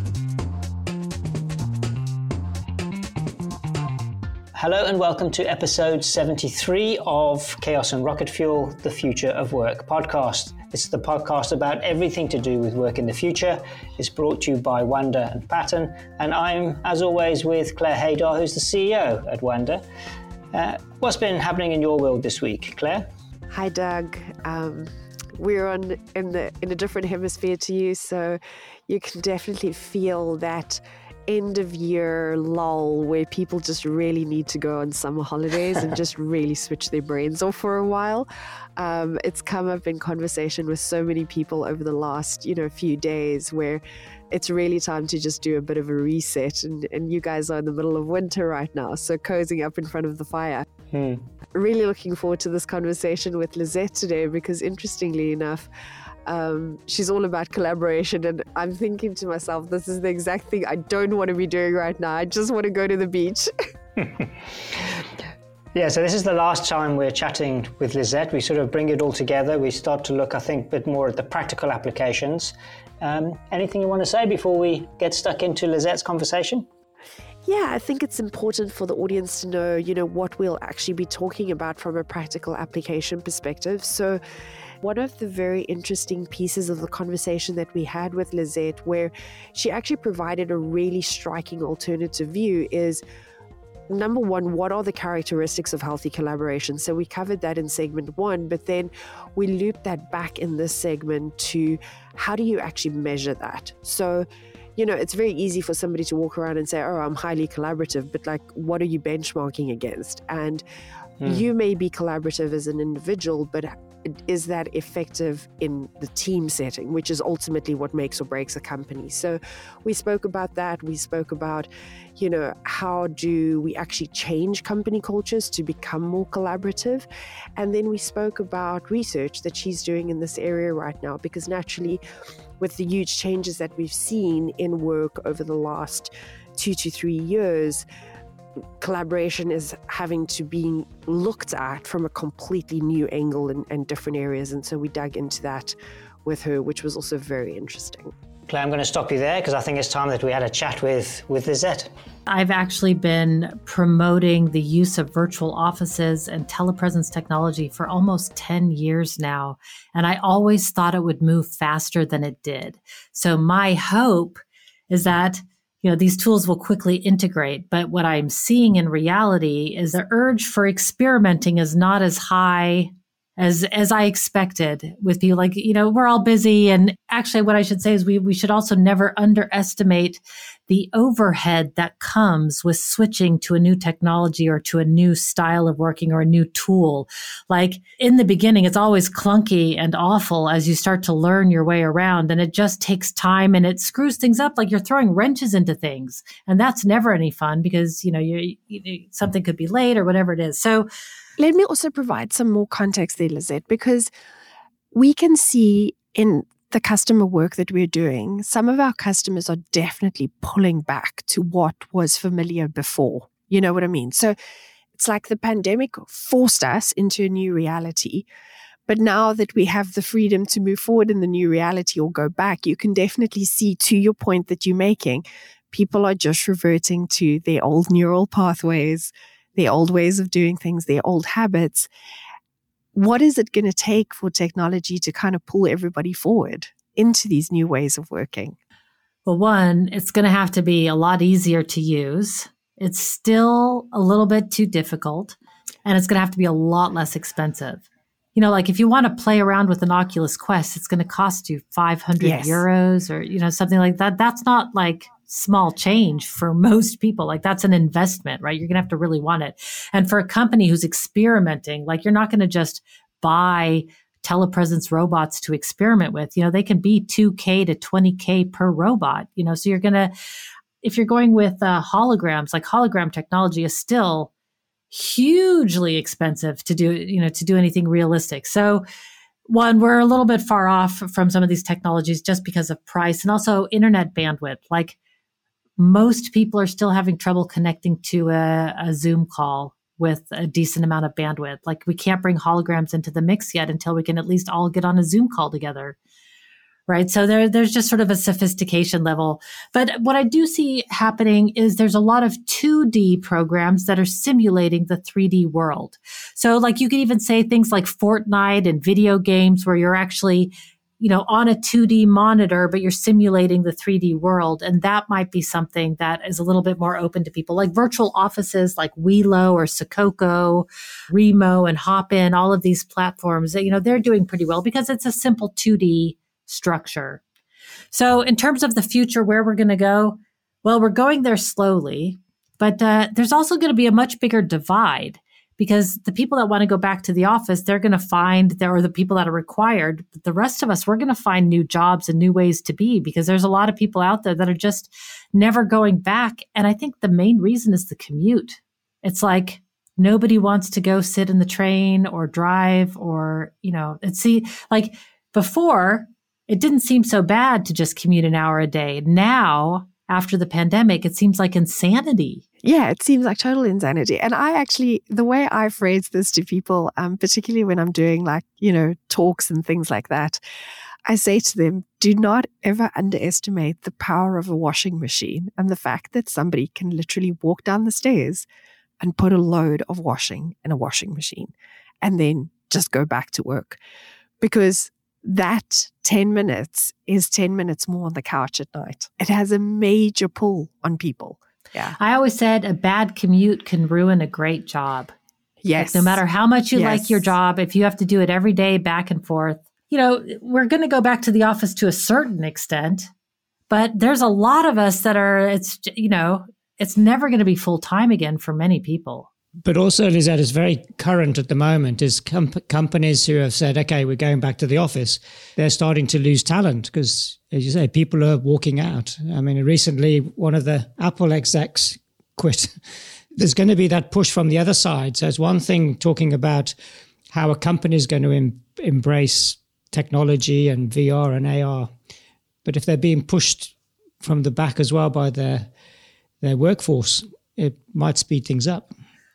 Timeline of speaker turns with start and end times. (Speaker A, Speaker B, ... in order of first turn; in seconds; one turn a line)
Speaker A: 4.5-19.8
Speaker A: 20.5-23.1
Speaker B: 23.5-50.6
Speaker A: 50.9-51.2
Speaker B: 51.5-55.7
Speaker B: 56.3-63.5
Speaker A: 65.7-76.7
Speaker B: 77.5-84.2
Speaker B: 84.8-93.0
Speaker B: 93.9-110.6
Speaker A: 111.2-111.5
Speaker B: 111.2-132.0
Speaker B: 132.6-137.8
Speaker B: 138.8-145.7
Speaker B: 146.2-148.1
Speaker A: 148.5-151.9
Speaker C: 152.3-200.9
Speaker B: 201.4-204.1
Speaker B: 204.9-214.3
Speaker B: 214.9-218.3
Speaker B: 218.9-231.9
Speaker B: 232.9-238.6
Speaker C: 239.3-270.1
Speaker B: 252.2-252.7
Speaker C: 270.8-274.3
Speaker C: 274.9-278.8
Speaker C: 279.5-285.0
Speaker C: 285.8-296.0
Speaker C: 296.9-327.2
Speaker C: 327.9-362.4
Speaker B: 362.6-370.4
Speaker B: 371.1-378.5
Speaker B: 379.0-383.8
Speaker B: 384.4-391.9
Speaker C: 392.0-395.1
Speaker B: 395.6-396.2
Speaker C: 395.8-403.1
Speaker B: 396.7-397.3
Speaker C: 403.7-409.3
Speaker A: 409.6-422.7
Speaker A: 423.4-426.8
Speaker A: 427.3-431.9
Speaker A: 432.6-435.7
Speaker A: 436.4-438.9